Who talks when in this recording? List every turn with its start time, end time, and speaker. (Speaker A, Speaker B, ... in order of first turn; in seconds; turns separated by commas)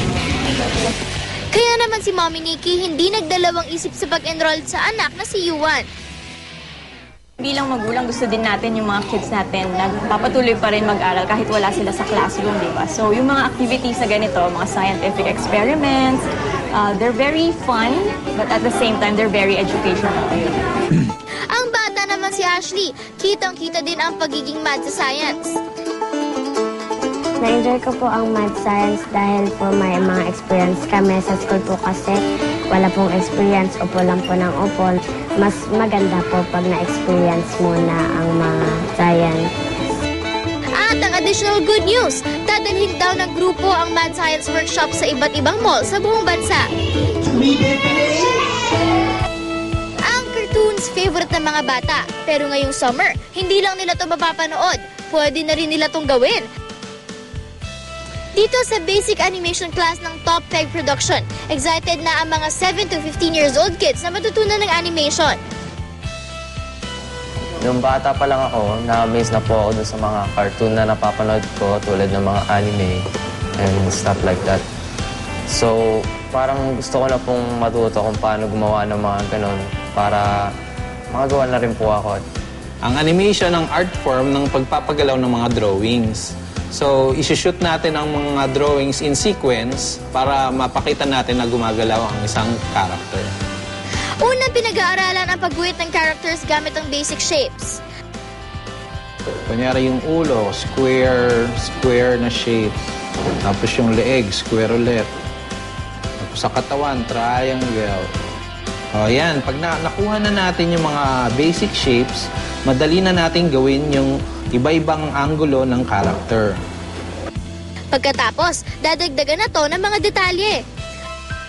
Speaker A: 1.5-5.9, Speaker B: 7.4-20.5, Speaker A: 21.5-25.6, Speaker C: 27.4-32.2, Speaker C: 32.7-39.5, Speaker A: 40.8-46.7, Speaker A: 50.0-56.5, Speaker A: 58.4-65.4, Speaker D: 67.6-73.0, Speaker D: 73.6-74.6, Speaker D: 75.5-80.5, Speaker D: 81.1-82.2, Speaker E: 82.8-93.3, Speaker A: 94.2-97.8, Speaker E: 99.5-102.7, Speaker E: 103.5-105.1, Speaker E: 106.2-108.0, Speaker E: 109.0-116.6, Speaker A: 117.9-120.6